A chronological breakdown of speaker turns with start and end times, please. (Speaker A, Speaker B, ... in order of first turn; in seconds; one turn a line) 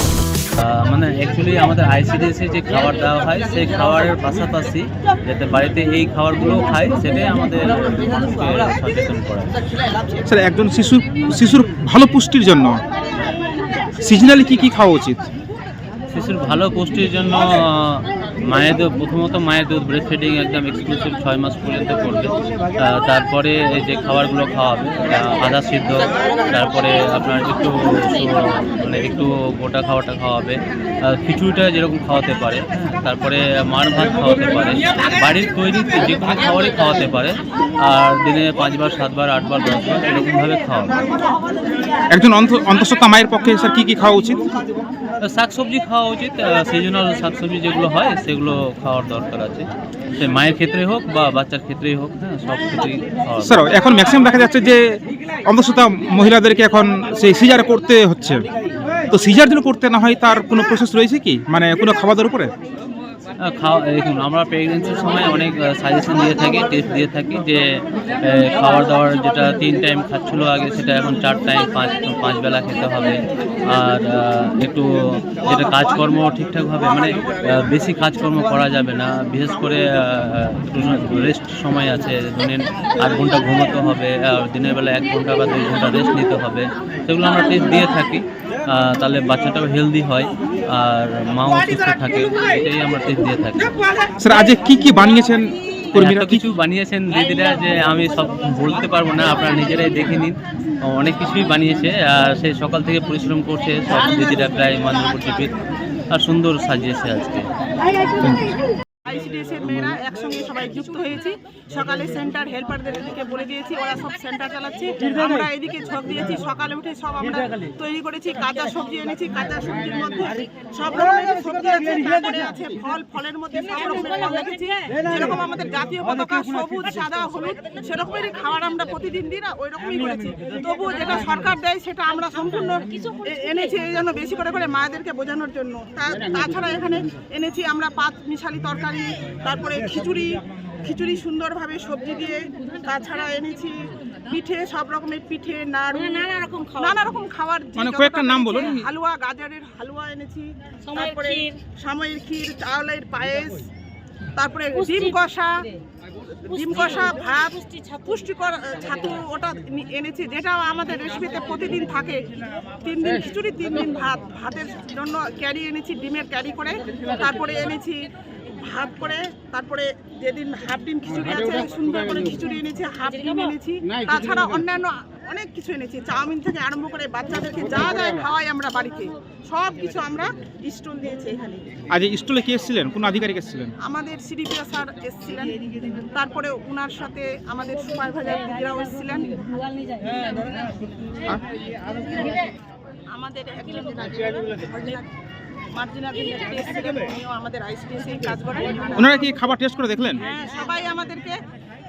Speaker A: 0.6-9.5
Speaker B: 10.3-12.8
Speaker B: 14.0-15.2
Speaker A: 16.1-40.9
Speaker B: 42.1-44.4
Speaker A: 45.2-53.6
Speaker B: 53.4-54.8
Speaker B: 55.5-58.4
Speaker B: 59.1-62.5
Speaker A: 63.4-93.7
Speaker B: 94.2-96.5
Speaker A: 96.0-105.5
Speaker A: 106.1-107.5
Speaker C: 109.1-143.8
Speaker C: 144.3-153.6
Speaker B: 147.8-148.9
Speaker C: 154.4-155.5
Speaker C: 156.5-162.2
Speaker C: 162.8-167.9
Speaker C: 168.7-181.6
Speaker B: 181.9-183.7
Speaker C: 183.8-185.6
Speaker C: 186.2-189.3
Speaker C: 193.1-195.1
Speaker C: 195.8-199.1
Speaker B: 199.0-200.2
Speaker C: 200.3-201.4